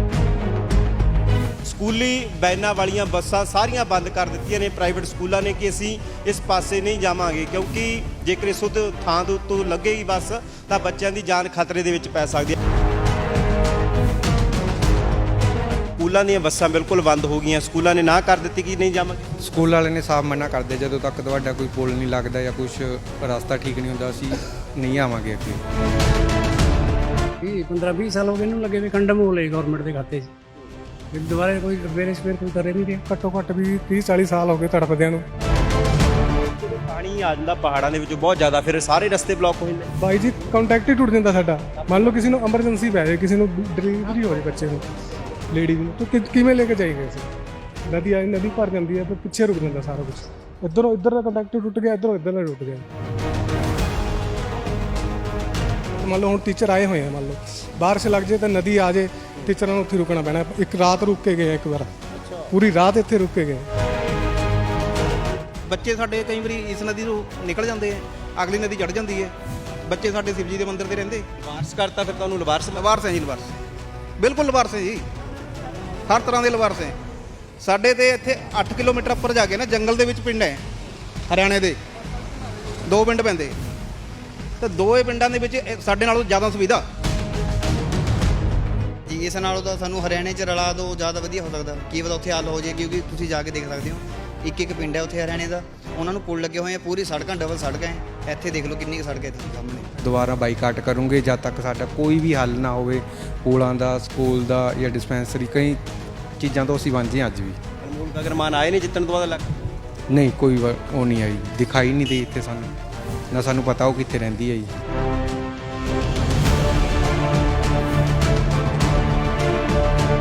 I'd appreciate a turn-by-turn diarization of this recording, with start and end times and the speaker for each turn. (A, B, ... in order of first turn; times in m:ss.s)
0:01.6-0:12.6 A
0:16.0-0:19.4 A
0:19.4-0:25.6 B
0:27.4-0:30.3 C
0:31.1-0:33.0 C
0:33.1-0:35.3 D
0:36.6-0:39.9 A
0:40.0-0:44.8 D
0:41.8-0:42.2 A
0:45.5-0:47.3 D
0:47.9-0:52.8 D
0:56.0-1:01.9 D
1:02.1-1:02.5 A
1:02.5-1:03.7 D
1:05.7-1:09.3 E
1:09.8-1:11.3 E
1:11.4-1:13.0 A
1:12.7-1:13.5 E
1:14.2-1:15.0 E
1:16.1-1:17.0 E
1:17.6-1:20.6 E
1:21.3-1:21.8 E
1:22.9-1:23.6 E
1:24.6-1:26.8 E
1:29.1-1:39.9 F
1:40.0-1:45.8 B
1:46.4-1:47.6 B
1:47.8-1:49.5 A
1:50.1-1:52.8 B
1:53.3-1:54.7 B